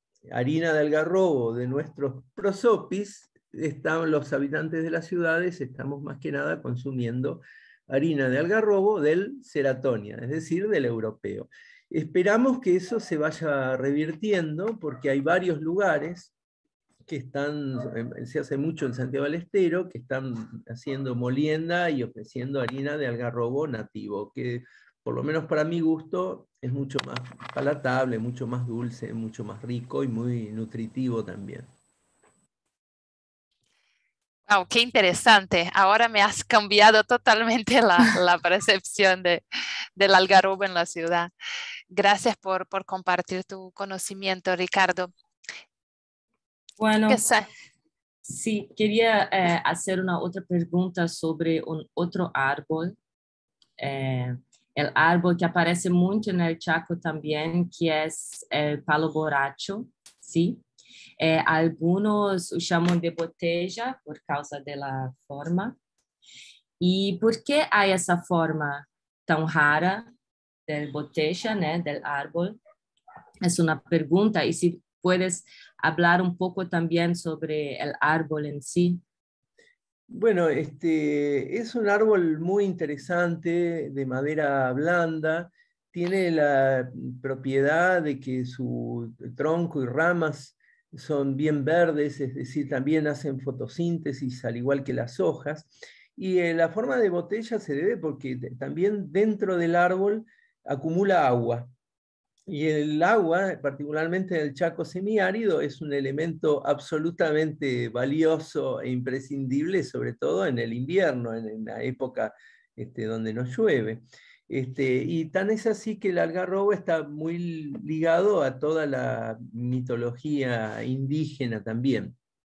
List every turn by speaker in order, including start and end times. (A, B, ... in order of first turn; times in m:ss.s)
0:00.3-0:16.3 A
0:17.1-0:31.7 A
0:34.5-0:39.4 B
0:40.0-0:41.3 B
0:41.9-0:45.1 B
0:46.8-0:47.2 C
0:47.1-0:47.5 B
0:48.2-0:53.0 C
0:53.8-1:00.6 C
1:01.2-1:05.8 C
1:06.8-1:10.1 C
1:10.7-1:12.6 C
1:13.4-1:19.0 C
1:20.1-1:41.7 A
1:42.5-2:02.2 A